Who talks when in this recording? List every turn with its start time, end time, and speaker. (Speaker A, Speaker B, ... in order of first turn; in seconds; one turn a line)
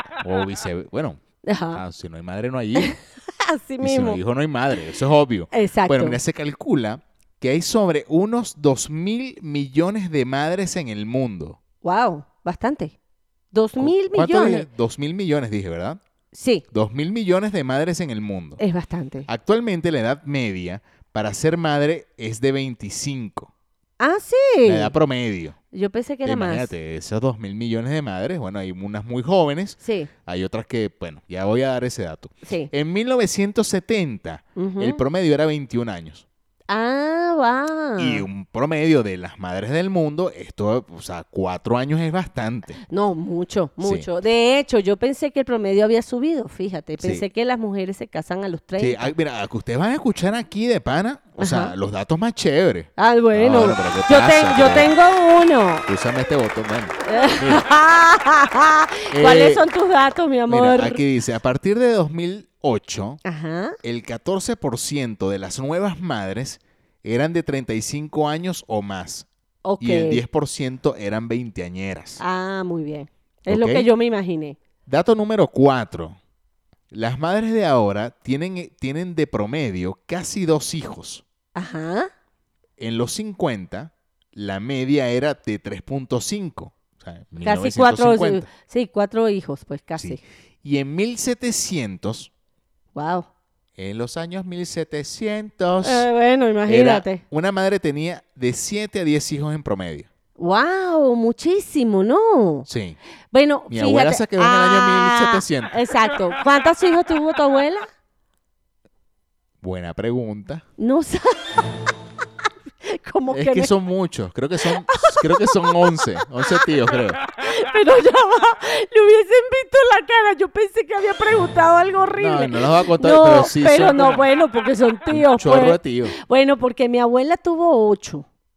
Speaker A: 0.2-1.2
Speaker B: 1.4-1.8
Speaker A: 1.7-3.0
Speaker B: 2.8-4.2
Speaker A: 3.8-11.6
Speaker B: 5.5-6.2
Speaker B: 11.8-12.9
Speaker B: 13.5-14.7
Speaker A: 13.8-16.0
Speaker B: 16.3-16.6
Speaker A: 16.7-18.6
Speaker B: 18.6-19.3
Speaker A: 19.3-23.5
Speaker B: 24.0-24.9
Speaker A: 24.6-25.6
Speaker B: 25.7-26.7
Speaker A: 26.2-36.2
Speaker B: 29.8-30.1
Speaker B: 32.5-32.7
Speaker B: 34.6-35.0
Speaker B: 36.7-38.3
Speaker A: 38.0-42.8
Speaker B: 42.9-49.1
Speaker A: 43.8-44.1
Speaker A: 48.8-54.9
Speaker B: 51.4-51.8
Speaker B: 53.0-55.9
Speaker A: 55.9-57.7
Speaker B: 57.1-61.0
Speaker A: 59.1-59.6
Speaker A: 60.5-63.2
Speaker B: 63.2-63.8
Speaker A: 63.8-69.3
Speaker B: 69.7-70.2
Speaker A: 69.8-72.2
Speaker B: 72.2-74.6
Speaker A: 73.5-73.9
Speaker A: 74.9-76.2
Speaker A: 76.9-81.2
Speaker B: 81.5-82.1
Speaker A: 82.8-88.5
Speaker B: 87.4-90.2
Speaker A: 90.0-92.3
Speaker B: 93.0-93.3
Speaker A: 93.8-96.1
Speaker B: 95.8-97.2
Speaker A: 96.7-100.1
Speaker B: 100.4-102.7
Speaker A: 102.7-103.0
Speaker B: 103.3-107.9
Speaker A: 103.7-105.8
Speaker A: 109.6-110.6
Speaker B: 110.8-111.5
Speaker B: 112.8-113.7
Speaker A: 113.3-117.2
Speaker B: 114.7-116.6
Speaker B: 117.4-128.3
Speaker A: 122.2-124.3
Speaker A: 125.1-126.2